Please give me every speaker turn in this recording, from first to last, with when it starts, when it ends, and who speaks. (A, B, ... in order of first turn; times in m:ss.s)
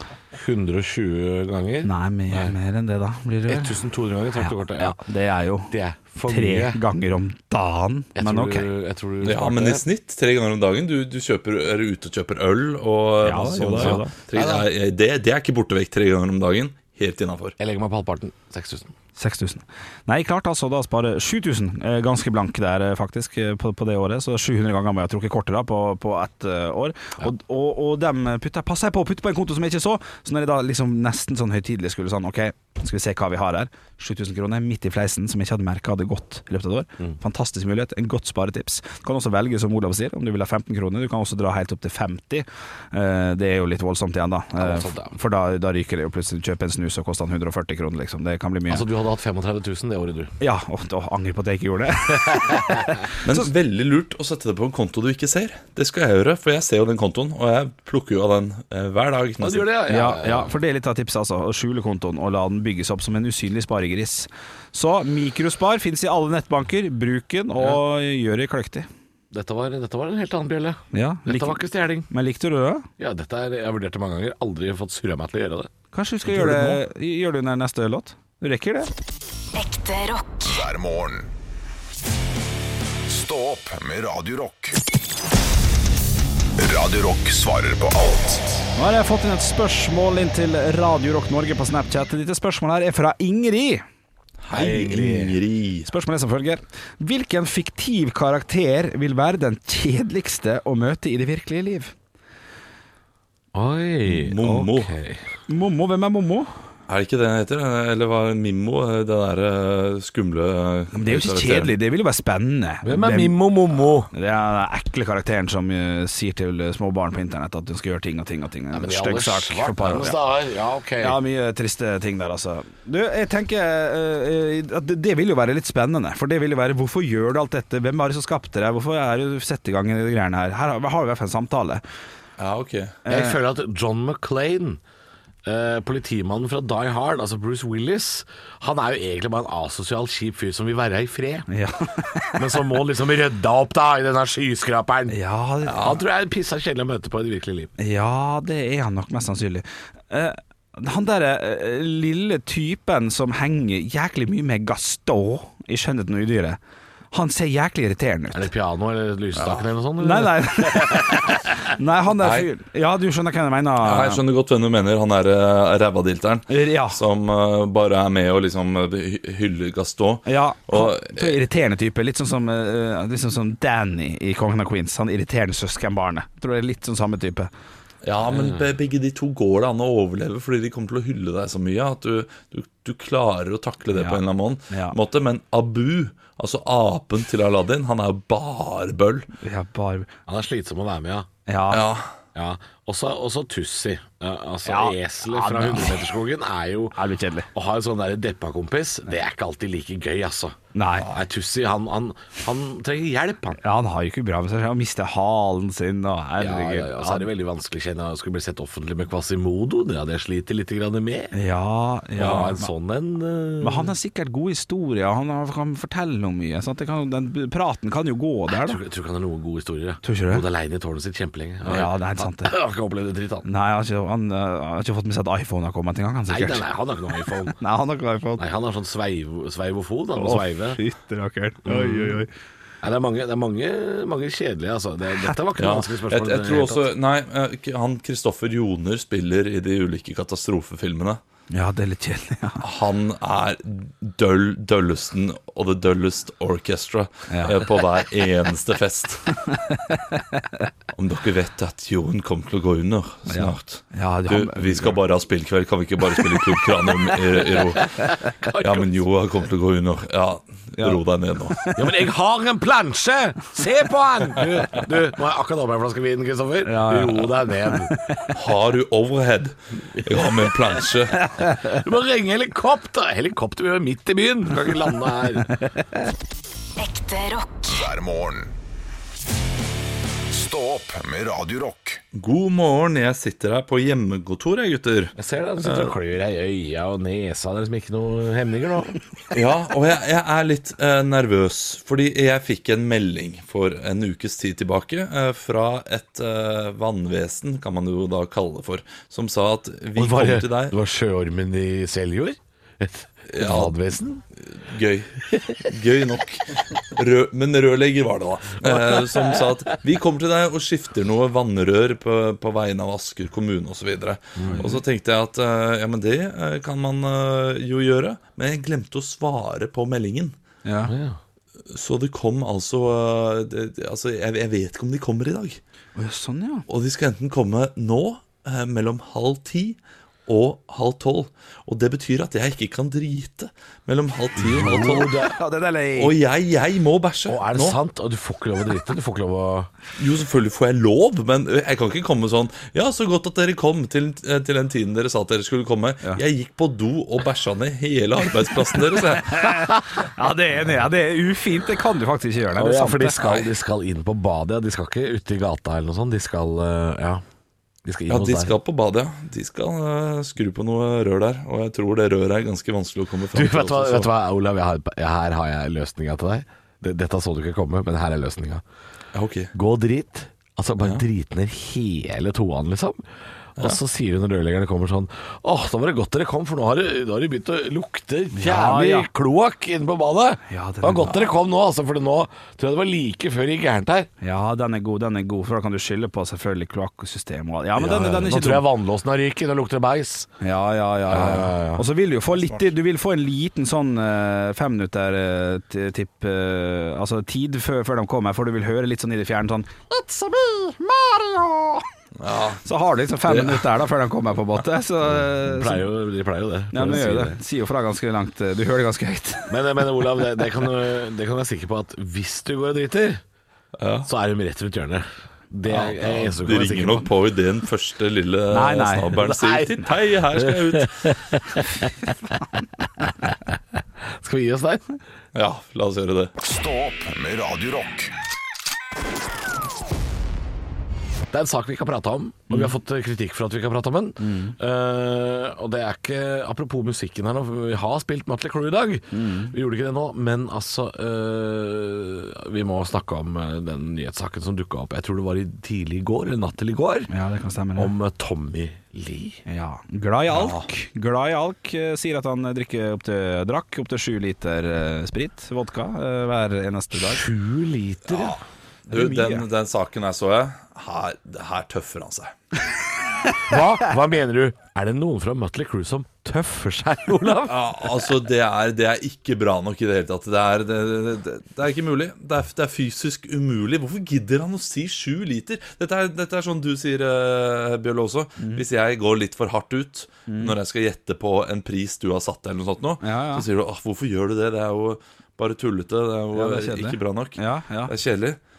0:00.3-0:02.5 A
0:01.8-0:03.8 B
0:03.5-0:05.0 A
0:04.4-0:05.7 B
0:05.7-0:06.8 A
0:06.3-0:08.7 B
0:08.2-0:09.8 A
0:09.2-0:17.6 C
0:13.2-0:14.2 B
0:13.8-0:14.7 A
0:17.6-0:18.9 A
0:19.2-0:48.9 B
0:44.6-0:45.2 A
0:48.7-0:50.3 A
0:50.4-0:53.5 B
0:52.5-0:52.7 A
0:53.2-0:59.7 C
0:59.4-1:00.5 A
0:59.9-1:08.9 B
1:09.3-1:12.1 A
1:10.9-1:12.9 B
1:13.0-1:15.7 A
1:15.9-1:18.9 B
1:16.3-1:16.8 C
1:19.6-1:20.6 D
1:20.5-1:21.3 E
1:23.1-1:24.8 E
1:26.6-1:28.6 E
1:28.8-1:33.8 B
1:34.4-1:35.9 C
1:34.5-1:35.4 A
1:35.9-1:41.9 B
1:43.5-1:45.2 A
1:44.1-1:44.9 C
1:45.5-1:46.5 B
1:46.9-1:51.7 C
1:50.9-1:53.4 B
1:52.8-1:54.1 A
1:54.1-2:00.2 B
1:58.7-2:01.2 A
2:01.0-2:11.8 B
2:12.4-2:13.0 C
2:13.0-2:13.4 B
2:13.1-2:14.8 A
2:15.4-2:21.5 A
2:21.5-2:22.6 B
2:22.4-2:27.7 A
2:25.1-2:26.0 B
2:27.8-2:36.6 B
2:37.1-2:38.5 B
2:38.3-2:41.4 A
2:39.4-2:44.2 B
2:42.2-2:42.5 C
2:43.8-2:51.4 C
2:46.5-2:47.0 B
2:50.3-2:57.5 B
2:58.0-3:09.3 C
2:58.3-2:58.6 A
3:03.9-3:05.0 B
3:09.4-3:10.1 B
3:10.3-3:11.3 A
3:11.5-3:11.8 B
3:11.7-3:12.1 C
3:12.4-3:17.0 A
3:14.6-3:16.0 B
3:17.0-3:17.5 B
3:17.5-3:23.6 A
3:20.7-3:21.1 B
3:23.6-3:27.3 B
3:26.4-3:31.3 A
3:31.3-3:32.7 B
3:32.2-3:33.9 A
3:33.6-3:38.8 B
3:38.5-3:43.5 A
3:40.0-3:40.4 B
3:41.7-3:42.5 B
3:43.4-3:46.6 B
3:46.3-3:47.6 A
3:47.5-3:48.4 B
3:48.4-3:50.8 A
3:50.2-3:52.3 B
3:51.6-3:52.3 A
3:52.8-3:56.9 A
3:55.6-4:01.2 C
4:01.5-4:02.6 B
4:02.6-4:09.3 C
4:07.3-4:07.6 B
4:09.5-4:10.4 B
4:10.9-4:18.0 C
4:13.3-4:15.0 B
4:18.4-4:18.9 A
4:18.5-4:21.6 C
4:20.8-4:21.9 B
4:21.8-4:28.0 A
4:26.6-4:28.3 B
4:28.3-4:31.2 C
4:31.3-4:31.8 B
4:31.6-4:35.5 A
4:35.6-4:36.1 B
4:36.8-4:37.9 D
4:37.7-4:38.5 E
4:40.3-4:42.0 E
4:42.2-4:46.0 C
4:45.2-4:49.0 A
4:49.3-5:00.8 C
5:00.0-5:04.2 A
5:03.3-5:03.8 C
5:04.4-5:20.4 C
5:08.6-5:09.6 A
5:14.4-5:14.8 A
5:14.4-5:14.7 B
5:20.6-5:20.9 B
5:20.9-5:21.2 A
5:21.7-5:25.6 C
5:26.0-5:26.7 B
5:26.7-5:35.2 C
5:34.4-5:35.4 A
5:34.8-5:36.2 B
5:36.0-5:37.8 C
5:37.3-5:39.7 A
5:40.0-5:49.7 C
5:49.3-5:53.5 B
5:52.5-5:57.2 A
5:57.8-5:58.6 A
5:58.1-6:04.1 C
6:03.3-6:08.6 A
6:09.1-6:09.5 C
6:09.5-6:13.0 A
6:13.6-6:24.1 A
6:18.3-6:19.1 B
6:20.5-6:21.2 B
6:24.2-6:28.7 B
6:27.8-6:30.3 A
6:30.4-6:41.9 B
6:31.1-6:31.9 A
6:42.2-6:42.6 C
6:42.6-6:45.9 B
6:43.3-6:43.7 C
6:45.4-6:47.4 A
6:46.7-6:49.6 B
6:49.5-6:53.2 A
6:53.8-6:54.1 C
6:54.1-6:57.1 A
6:55.7-7:01.2 C
6:58.5-6:59.2 B
6:59.1-7:02.4 A
7:03.1-7:05.0 A
7:05.4-7:06.3 C
7:06.4-7:08.1 E
7:11.3-7:27.1 A
7:14.2-7:14.6 B
7:19.1-7:19.5 B
7:27.1-7:27.9 B
7:27.8-7:29.4 A
7:29.5-7:37.3 B
7:30.3-7:30.7 C
7:36.9-7:38.4 A
7:38.1-7:42.3 C
7:38.9-7:39.4 B
7:43.5-7:47.9 A
7:47.4-8:08.4 C
8:00.3-8:00.6 B
8:03.0-8:03.4 B
8:06.3-8:07.9 B